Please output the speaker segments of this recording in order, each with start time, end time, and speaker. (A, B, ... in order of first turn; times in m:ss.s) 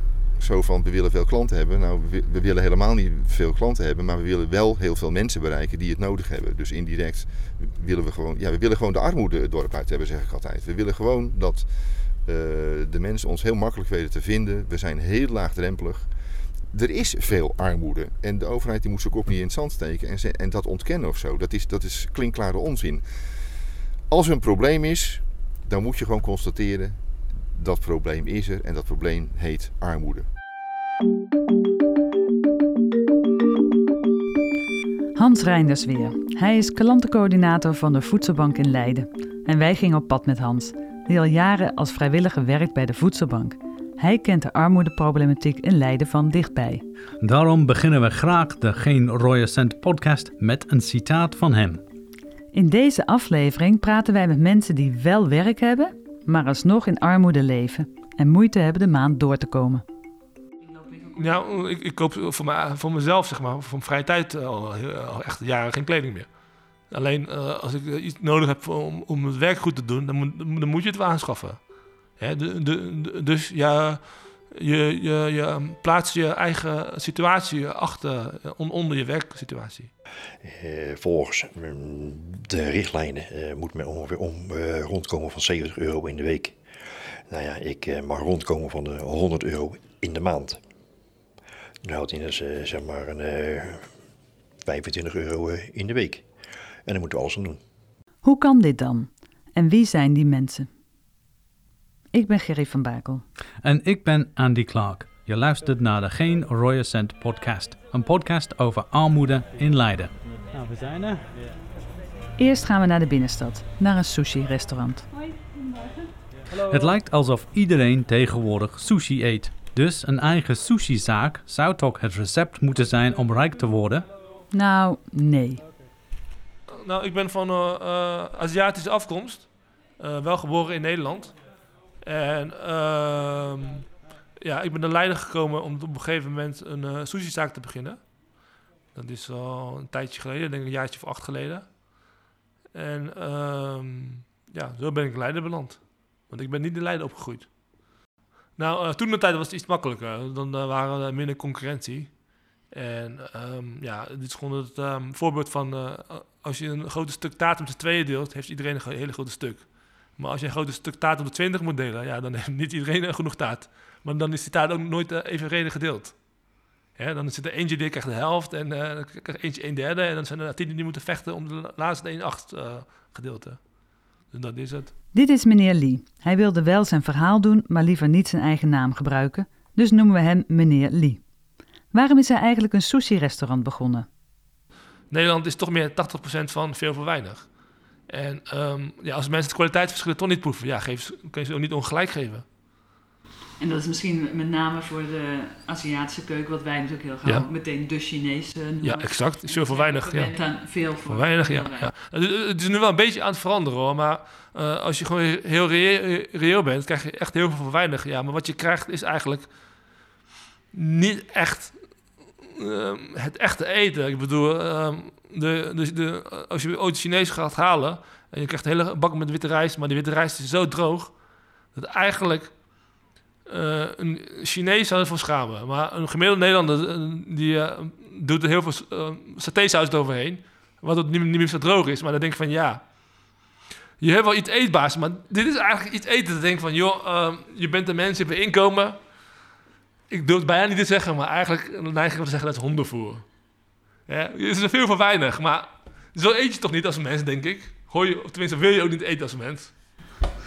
0:00.4-0:16.1 A
0:16.7-0:23.6 A
0:24.1-0:30.3 A
0:35.2-0:46.8 B
0:47.2-0:51.8 C
0:52.5-0:59.8 B
1:00.7-1:01.2 B
1:01.2-1:06.3 D
1:06.9-1:11.6 D
1:12.2-1:19.9 D
1:20.4-1:26.6 E
1:27.3-1:30.6 E
1:31.8-1:33.9 E
1:34.6-1:36.2 E
1:36.9-1:37.6 E
1:38.2-1:40.7 B
1:42.1-1:43.2 B
1:43.6-1:51.3 C
1:52.4-1:55.1 B
1:56.5-2:04.1 C
2:04.5-2:05.6 B
2:06.8-2:11.4 D
2:12.0-2:13.8 D
2:14.4-2:18.0 D
2:18.9-2:21.8 D
2:22.7-2:27.5 D
2:28.6-2:46.2 D
2:47.0-2:53.6 D
2:54.3-2:54.9 D
2:55.1-3:01.2 B
3:01.9-3:04.1 B
3:05.1-3:07.5 D
3:08.1-3:12.5 D
3:13.6-3:21.9 B
3:18.8-3:29.5 D
3:30.7-3:41.1 D
3:41.8-3:42.5 D
3:43.5-3:52.8 D
3:54.0-3:59.0 D
4:00.1-4:03.3 D
4:04.1-4:09.7 D